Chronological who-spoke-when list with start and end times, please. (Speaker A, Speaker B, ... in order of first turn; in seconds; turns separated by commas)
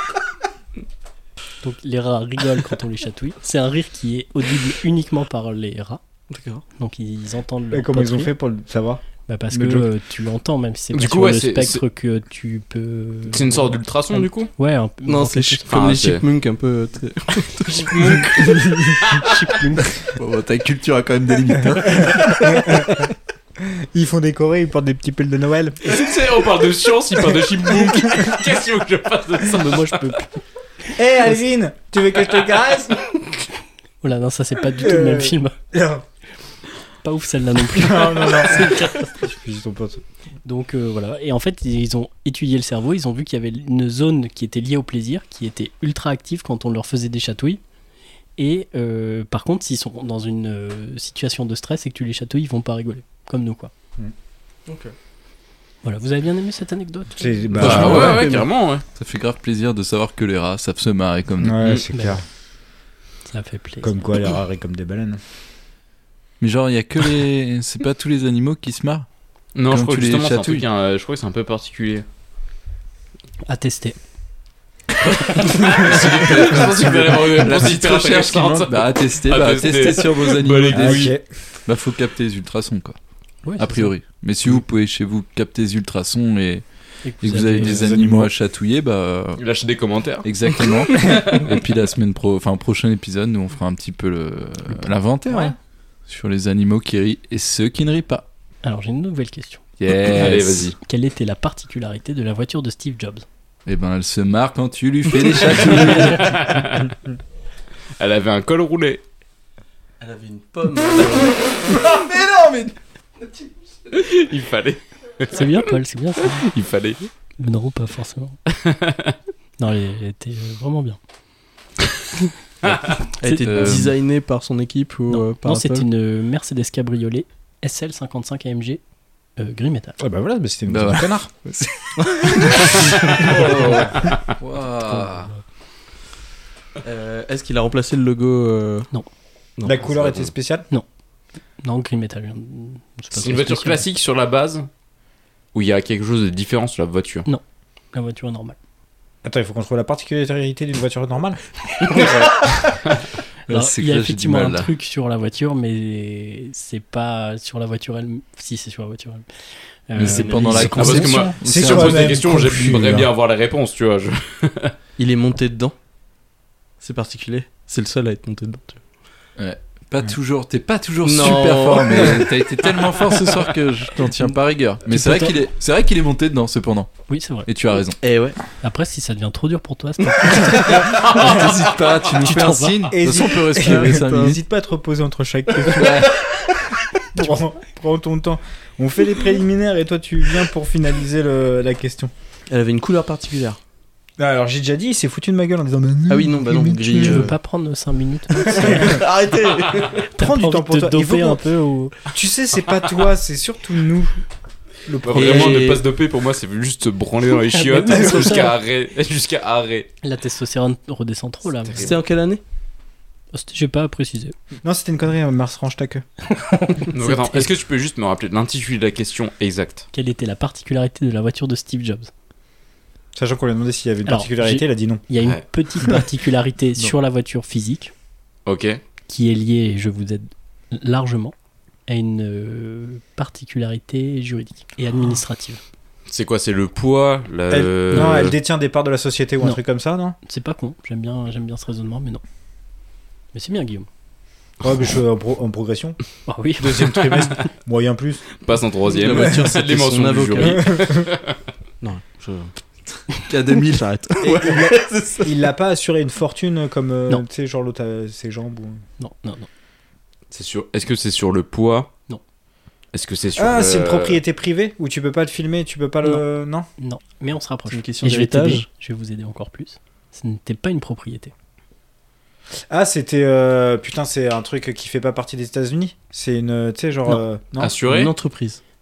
Speaker A: 1.6-6.0, Speaker B: 6.3-6.6, Speaker A: 6.8-8.3, Speaker C: 7.7-9.9, Speaker A: 9.3-15.7, Speaker D: 10.9-11.8, Speaker D: 13.3-14.5, Speaker B: 15.1-18.2, Speaker D: 15.7-16.2, Speaker D: 17.8-19.3, Speaker C: 18.4-19.0, Speaker A: 19.2-19.9, Speaker E: 20.1-22.6, Speaker C: 22.4-23.0, Speaker C: 23.6-26.1, Speaker D: 25.8-30.0, Speaker C: 27.7-28.2, Speaker A: 29.5-30.4, Speaker C: 30.9-33.0, Speaker A: 34.0-35.5, Speaker C: 34.8-36.0, Speaker A: 37.0-39.2, Speaker C: 37.7-40.0, Speaker A: 40.5-47.6, Speaker A: 48.4-53.7, Speaker B: 54.7-54.9, Speaker A: 55.8-57.6, Speaker C: 57.2-58.2, Speaker B: 57.6-58.5, Speaker D: 57.6-58.8, Speaker E: 57.6-58.3, Speaker E: 59.0-61.6, Speaker C: 61.4-62.2, Speaker A: 61.9-62.2, Speaker A: 63.3-64.0, Speaker C: 63.8-65.2, Speaker E: 66.4-69.1, Speaker D: 69.6-72.0, Speaker E: 69.7-70.7, Speaker A: 73.5-74.0, Speaker D: 75.3-81.1, Speaker E: 75.8-81.2, Speaker C: 80.7-81.2, Speaker E: 81.7-83.0, Speaker A: 83.5-83.9, Speaker E: 83.6-86.6, Speaker A: 87.0-87.8, Speaker E: 87.2-89.4, Speaker C: 87.6-88.3, Speaker D: 89.4-91.4, Speaker E: 90.2-95.5, Speaker C: 95.3-95.5, Speaker E: 96.1-98.2, Speaker A: 98.6-99.6, Speaker E: 99.8-100.8, Speaker D: 100.0-100.8, Speaker A: 100.2-103.2, Speaker E: 103.7-106.5, Speaker D: 106.2-106.9, Speaker D: 108.0-109.0, Speaker B: 110.0-111.7, Speaker E: 111.7-112.7, Speaker D: 113.9-115.6, Speaker A: 115.3-116.5, Speaker D: 116.4-117.1, Speaker A: 117.4-118.4, Speaker D: 118.5-119.1, Speaker A: 119.6-121.0, Speaker B: 123.2-125.9, Speaker A: 123.2-123.9, Speaker E: 123.4-124.0, Speaker A: 125.1-128.8, Speaker A: 129.4-130.0, Speaker C: 130.0-131.3, Speaker E: 130.7-135.3, Speaker A: 134.8-135.4, Speaker B: 136.8-138.9, Speaker B: 139.6-140.2, Speaker C: 139.6-140.7, Speaker A: 141.6-143.8, Speaker D: 143.1-144.7, Speaker D: 145.5-147.3, Speaker A: 147.9-148.6, Speaker C: 149.2-151.4, Speaker D: 151.9-152.3, Speaker E: 153.5-154.7, Speaker A: 153.5-161.1, Speaker E: 160.0-162.8, Speaker B: 160.0-161.0, Speaker D: 160.8-164.7, Speaker C: 160.8-163.1, Speaker B: 165.0-165.8, Speaker B: 166.8-168.8, Speaker E: 169.4-176.9, Speaker B: 171.0-173.4, Speaker A: 174.9-175.4, Speaker A: 177.1-177.5, Speaker E: 177.5-178.0, Speaker B: 178.0-178.4, Speaker A: 178.6-181.3, Speaker E: 180.6-184.4, Speaker A: 182.2-182.8, Speaker C: 182.9-186.5, Speaker B: 183.0-184.4, Speaker E: 185.7-186.2, Speaker C: 187.1-192.1, Speaker B: 192.5-193.6, Speaker C: 194.2-197.3, Speaker B: 196.1-197.4, Speaker A: 197.0-198.7, Speaker B: 198.4-200.1, Speaker C: 198.5-199.0, Speaker A: 200.2-201.9, Speaker C: 200.2-201.4, Speaker C: 202.1-204.2, Speaker C: 204.9-205.7, Speaker D: 205.0-209.9, Speaker B: 205.1-205.8, Speaker A: 207.5-208.5, Speaker A: 210.0-211.9, Speaker D: 211.7-211.9, Speaker B: 211.8-212.4, Speaker A: 213.3-214.3, Speaker C: 214.6-216.0, Speaker A: 216.3-217.5, Speaker D: 216.9-219.9, Speaker A: 219.9-222.1, Speaker C: 223.2-225.0, Speaker A: 224.1-227.9, Speaker D: 228.5-228.8, Speaker A: 229.1-231.3, Speaker A: 231.9-235.6, Speaker D: 236.1-238.4, Speaker C: 237.5-240.2, Speaker A: 237.9-238.2, Speaker A: 240.2-242.2, Speaker A: 243.3-243.9, Speaker C: 244.6-246.0, Speaker A: 246.3-247.5, Speaker C: 246.6-248.2, Speaker D: 248.4-251.3, Speaker B: 248.9-250.8, Speaker C: 249.1-249.4, Speaker C: 250.4-251.1, Speaker B: 251.8-252.5, Speaker E: 253.1-254.2, Speaker B: 253.6-255.3, Speaker C: 254.2-258.8, Speaker A: 259.0-259.5, Speaker D: 260.3-261.9, Speaker D: 262.9-264.2, Speaker C: 263.4-266.7, Speaker A: 266.8-271.3, Speaker B: 267.7-268.7, Speaker C: 272.7-277.7, Speaker D: 277.6-278.1, Speaker B: 277.9-278.6